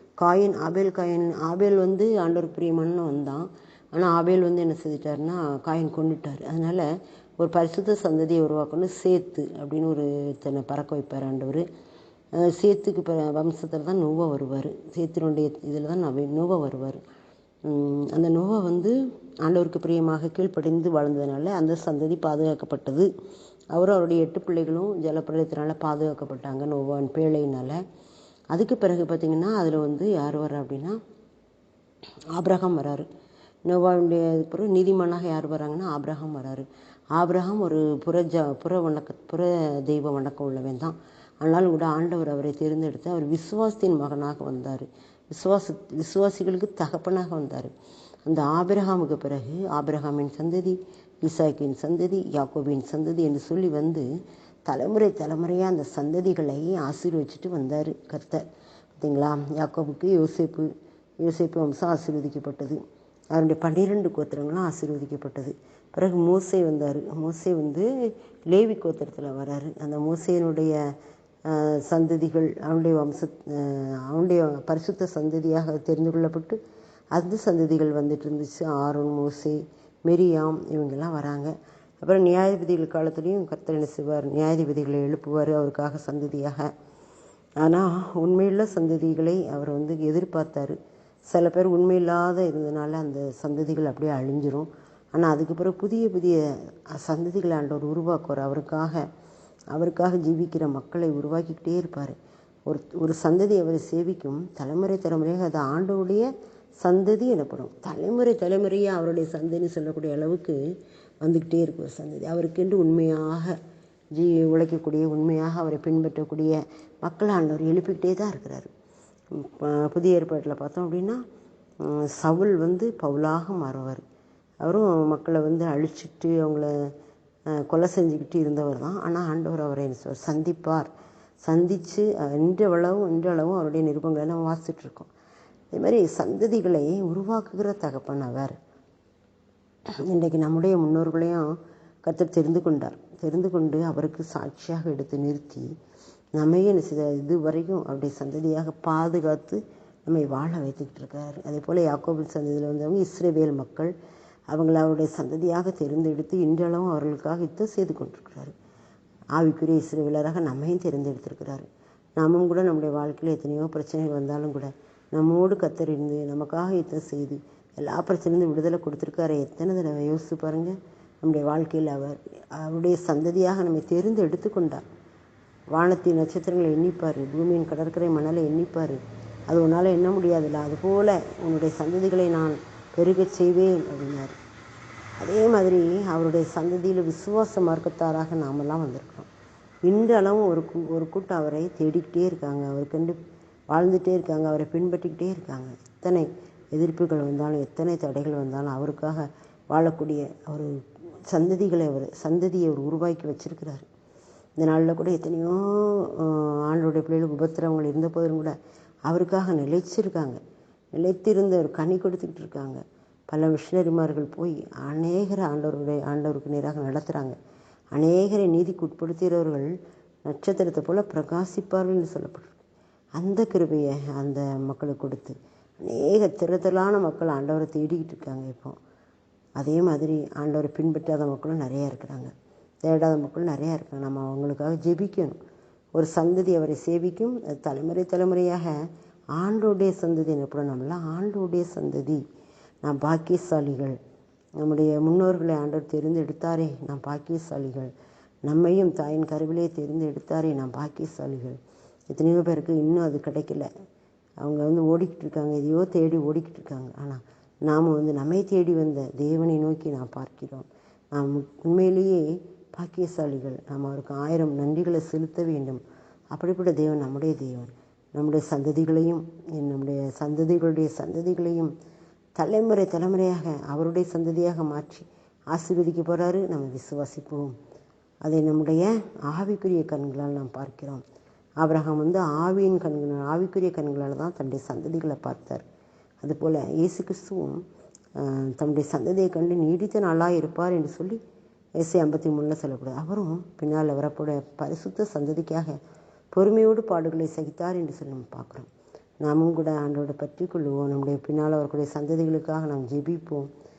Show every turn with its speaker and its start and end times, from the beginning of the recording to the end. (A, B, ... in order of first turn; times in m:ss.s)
0:00.2-0:06.9 A
0:07.4-0:11.6 A
0:12.4-0:17.0 A
0:17.6-0:23.1 A
0:23.7-0:27.8 A
0:28.5-0:31.0 A
0:32.3-0:33.1 A
0:33.7-0:47.7 A
0:48.3-0:54.1 A
0:54.7-0:58.4 A
0:59.0-1:00.7 A
1:01.2-1:02.8 A
1:03.3-1:07.9 A
1:08.5-1:10.8 A
1:11.5-1:16.6 A
1:17.1-1:26.7 A
1:27.6-1:30.8 A
1:31.3-1:39.0 A
1:39.7-1:42.2 A
1:42.7-1:46.3 A
1:46.8-1:50.6 A
1:51.2-1:53.6 A
1:54.2-1:58.7 A
1:59.3-2:01.2 A
2:01.8-2:04.0 A
2:04.6-2:06.9 A
2:07.5-2:10.9 A
2:11.4-2:15.1 A
2:15.7-2:18.6 A
2:20.1-2:21.5 A
2:22.0-2:25.7 A
2:26.4-2:33.9 A
2:34.5-2:38.5 A
2:39.4-2:54.8 A
2:55.7-3:04.4 A
3:05.2-3:09.3 A
3:09.8-3:13.2 A
3:13.7-3:23.8 A
3:24.6-3:28.6 A
3:29.1-3:30.4 A
3:31.0-3:37.4 A
3:37.9-3:39.7 A
3:40.2-3:42.6 A
3:43.2-3:48.8 A
3:49.6-3:52.3 A
3:52.8-3:55.4 A
3:56.0-3:58.7 A
3:59.3-4:02.2 A
4:02.8-4:04.0 A
4:04.6-4:07.9 A
4:08.4-4:11.6 A
4:12.1-4:13.7 A
4:14.4-4:25.8 A
4:26.3-4:31.7 A
4:32.4-4:37.5 A
4:38.2-4:41.0 A
4:41.6-4:45.6 A
4:46.2-4:47.6 A
4:48.2-4:51.2 A
4:51.8-4:55.8 A
4:56.3-4:58.7 A
4:59.2-5:03.5 A